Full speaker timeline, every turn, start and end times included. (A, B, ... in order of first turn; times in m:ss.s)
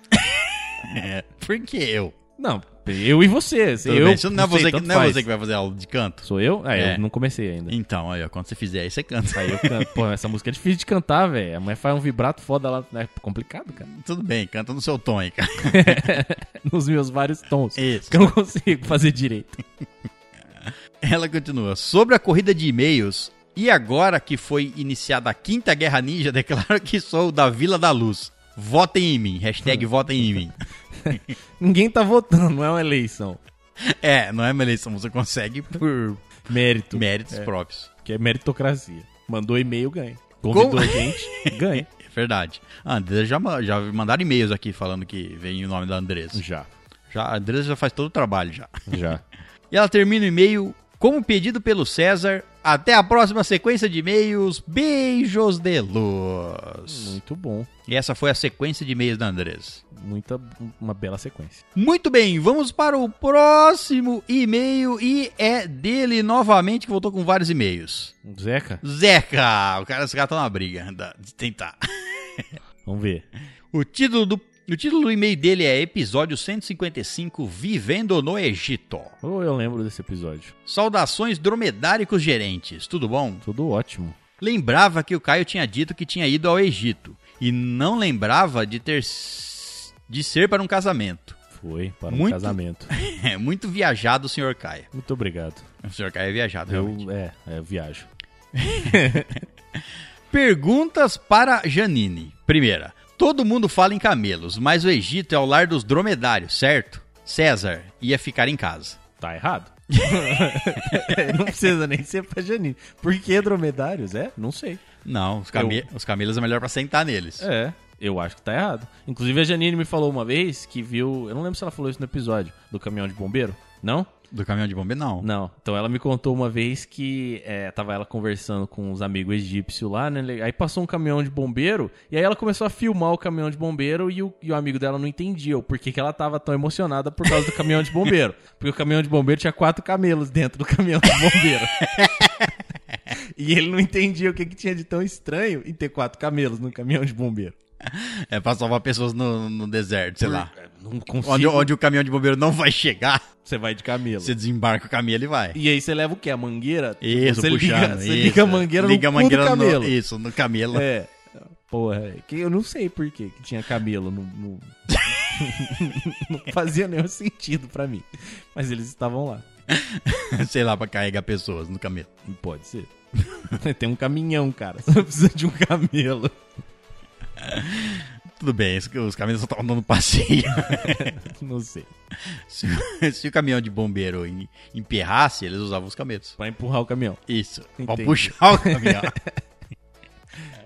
0:00.1-0:02.2 A
0:02.4-0:05.2 B
0:03.8-0:07.0 A
0:06.2-0:07.8 B
0:07.7-0:10.0 A
0:09.3-0:13.9 B
0:13.9-0:16.2 A
0:15.6-0:19.6 B
0:17.8-0:18.3 A
0:21.0-0:30.6 A
0:31.0-0:33.4 B
0:33.8-0:36.4 A
0:36.5-0:37.5 B
0:36.9-0:37.9 A
0:38.0-0:41.9 B
0:40.5-0:46.4 A
0:46.3-0:46.7 B
0:47.1-0:49.1 A
0:48.9-0:49.2 B
0:49.7-0:57.2 A
0:56.9-0:57.7 B
0:57.9-0:59.8 A
0:59.9-1:01.6 B
1:01.8-1:08.1 A
1:08.2-1:08.8 B
1:08.8-1:12.5 A
1:12.9-1:13.3 B
1:13.7-1:19.2 A
1:19.2-1:20.5 B
1:20.7-1:23.4 A
1:23.4-1:24.2 B
1:24.4-1:31.4 A
1:31.5-1:32.9 B
1:32.1-1:34.9 A
1:34.9-1:35.6 B
1:35.8-1:37.0 A
1:36.7-1:38.1 B
1:38.6-1:39.2 A
1:38.8-1:39.4 B
1:40.3-1:49.0 A
1:49.2-1:54.8 B
1:49.9-1:51.2 A
1:55.0-1:57.5 A
1:55.5-1:55.8 B
1:57.4-2:04.1 B
2:04.3-2:05.3 A
2:05.2-2:22.0 B
2:21.8-2:22.5 A
2:23.1-2:27.6 B
2:27.8-2:30.5 A
2:30.2-2:31.7 B
2:31.2-2:33.2 A
2:33.4-2:34.3 B
2:34.2-2:35.6 A
2:35.5-2:40.0 B
2:37.0-2:40.9 A
2:40.7-2:49.5 B
2:44.9-2:45.5 A
2:49.7-2:52.1 A
2:52.2-2:52.9 B
2:53.2-2:53.4 A
2:53.5-2:56.4 B
2:57.4-3:01.1 A
3:00.7-3:01.9 B
3:02.2-3:06.4 A
3:06.4-3:07.2 B
3:07.3-3:09.2 A
3:07.8-3:09.3 B